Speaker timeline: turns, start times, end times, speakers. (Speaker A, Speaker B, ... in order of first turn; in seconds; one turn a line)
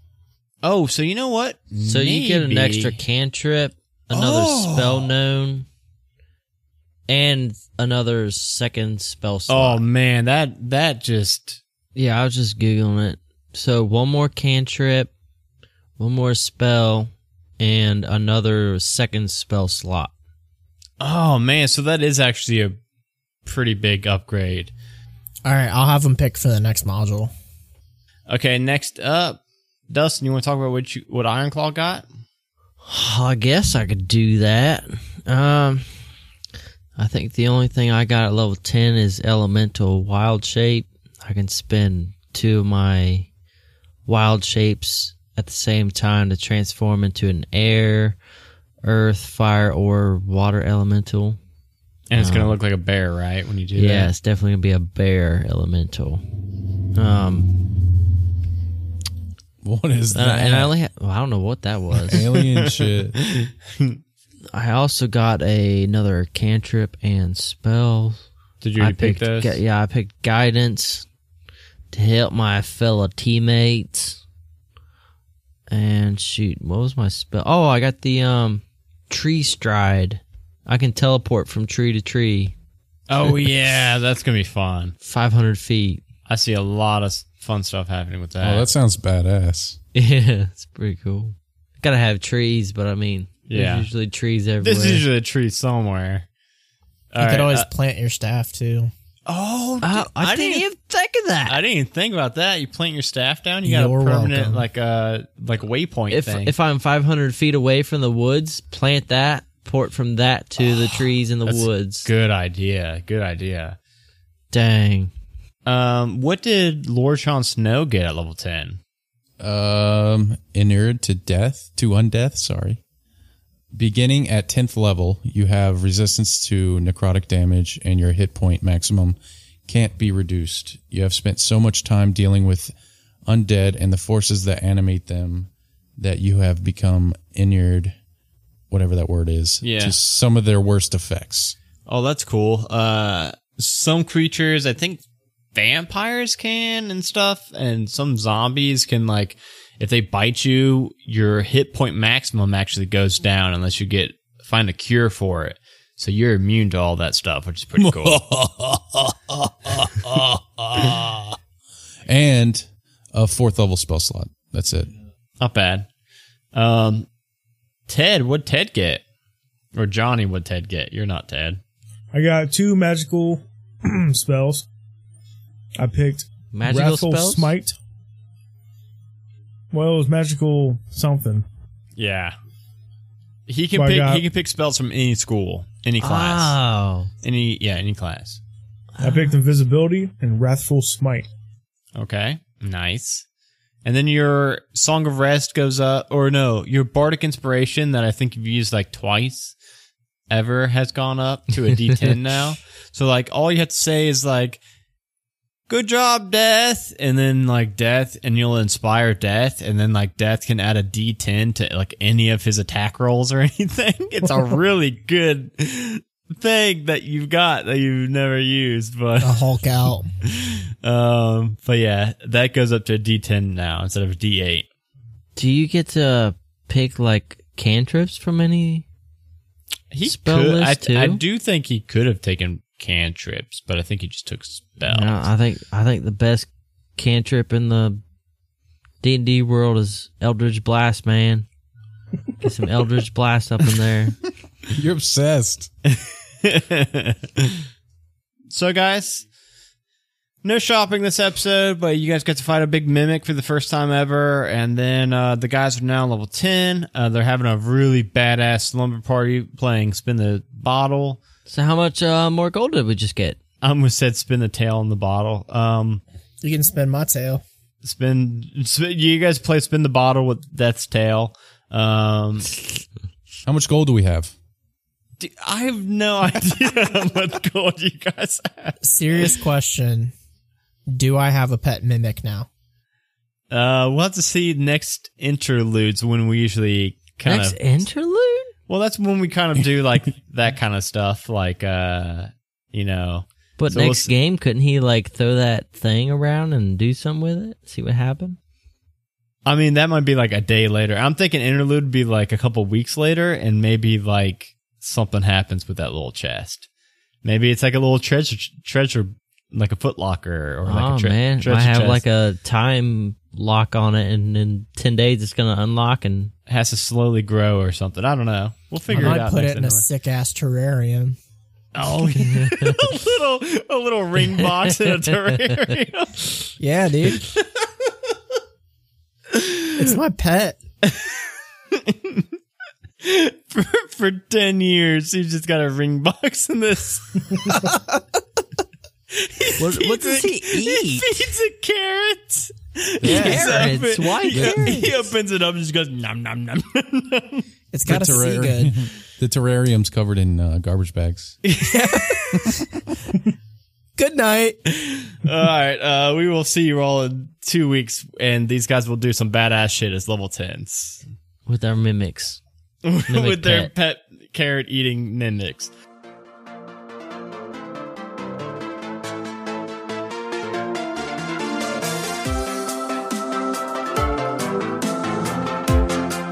Speaker A: 0.6-3.0
Speaker B: 1.9-5.7
Speaker A: 4.1-5.1
Speaker B: 7.1-9.8
Speaker A: 9.5-11.6
Speaker B: 11.9-15.1
Speaker B: 16.0-20.1
Speaker A: 21.0-22.8
Speaker A: 23.4-24.7
Speaker C: 25.5-27.3
Speaker A: 28.3-32.0
Speaker B: 32.9-36.0
Speaker B: 37.0-43.3
Speaker B: 44.1-48.2
Speaker B: 48.8-51.4
Speaker A: 52.1-54.1
Speaker B: 52.2-52.5
Speaker B: 53.8-56.2
Speaker B: 56.9-57.6
Speaker D: 59.6-60.7
Speaker B: 60.1-62.2
Speaker D: 62.1-63.2
Speaker A: 62.1-64.0
Speaker B: 64.5-68.3
Speaker A: 68.6-69.6
Speaker B: 68.8-71.1
Speaker B: 71.9-74.2
Speaker B: 75.7-82.5
Speaker A: 83.1-85.0
Speaker B: 85.0-86.0
Speaker A: 86.3-88.7
Speaker D: 88.4-89.8
Speaker B: 90.0-95.0
Speaker A: 93.5-93.9
Speaker A: 94.6-96.3
Speaker A: 97.1-97.7
Speaker C: 97.2-98.9
Speaker A: 99.3-100.7
Speaker B: 99.8-101.6
Speaker A: 101.5-106.5
Speaker C: 103.7-104.7
Speaker B: 106.1-112.1
Speaker A: 110.6-113.8
Speaker B: 114.5-115.1
Speaker A: 115.7-118.8
Speaker D: 119.4-122.8
Speaker D: 123.7-132.8
Speaker D: 133.3-138.0
Speaker D: 138.7-141.6
Speaker A: 139.6-140.0
Speaker A: 141.9-145.0
Speaker A: 145.5-158.2
Speaker D: 157.8-161.2
Speaker D: 162.1-164.9
Speaker A: 165.4-165.9
Speaker A: 166.5-167.1
Speaker A: 167.9-169.0
Speaker A: 169.8-171.6
Speaker E: 172.1-174.7
Speaker E: 175.8-177.8
Speaker B: 176.5-177.5
Speaker E: 179.7-181.5
Speaker A: 182.0-182.4
Speaker A: 183.5-186.6
Speaker E: 183.7-184.2
Speaker B: 186.0-187.1
Speaker A: 187.2-188.4
Speaker B: 189.0-189.3
Speaker E: 189.0-191.3
Speaker A: 192.0-193.2
Speaker A: 193.8-199.6
Speaker A: 200.3-204.6
Speaker A: 205.7-219.4
Speaker C: 219.2-220.1
Speaker A: 220.3-224.7
Speaker B: 225.4-228.9
Speaker A: 229.9-235.3
Speaker B: 230.1-231.2
Speaker B: 234.9-238.0
Speaker B: 239.0-241.5
Speaker B: 242.4-244.2
Speaker D: 244.7-245.7
Speaker A: 245.9-247.6
Speaker A: 248.5-249.2
Speaker A: 250.4-261.2
Speaker B: 261.5-263.4
Speaker A: 263.6-266.0
Speaker C: 266.4-267.4
Speaker A: 267.8-272.6
Speaker D: 273.5-274.3
Speaker A: 275.2-278.8
Speaker C: 278.8-280.1
Speaker C: 280.9-282.5
Speaker A: 283.5-287.6
Speaker B: 287.2-288.5
Speaker A: 288.7-294.1
Speaker B: 293.6-298.4
Speaker A: 299.5-306.7
Speaker A: 307.2-312.0
Speaker B: 310.7-316.3
Speaker A: 316.5-319.9
Speaker B: 318.9-319.2
Speaker C: 318.9-321.2
Speaker A: 321.8-326.3
Speaker B: 322.1-322.9
Speaker C: 326.6-327.3
Speaker A: 327.2-327.7
Speaker A: 329.3-329.7
Speaker C: 329.8-330.6
Speaker A: 330.8-332.3
Speaker A: 333.0-337.8
Speaker A: 339.1-347.4
Speaker B: 339.6-341.3
Speaker D: 343.0-343.8
Speaker B: 343.0-344.9
Speaker C: 343.1-343.4
Speaker D: 344.3-344.8
Speaker C: 347.7-348.8
Speaker D: 347.9-351.4
Speaker A: 351.4-352.5
Speaker C: 351.6-352.6
Speaker C: 354.0-354.6
Speaker A: 354.7-361.0
Speaker B: 361.5-362.4
Speaker A: 362.8-365.7
Speaker B: 363.1-363.7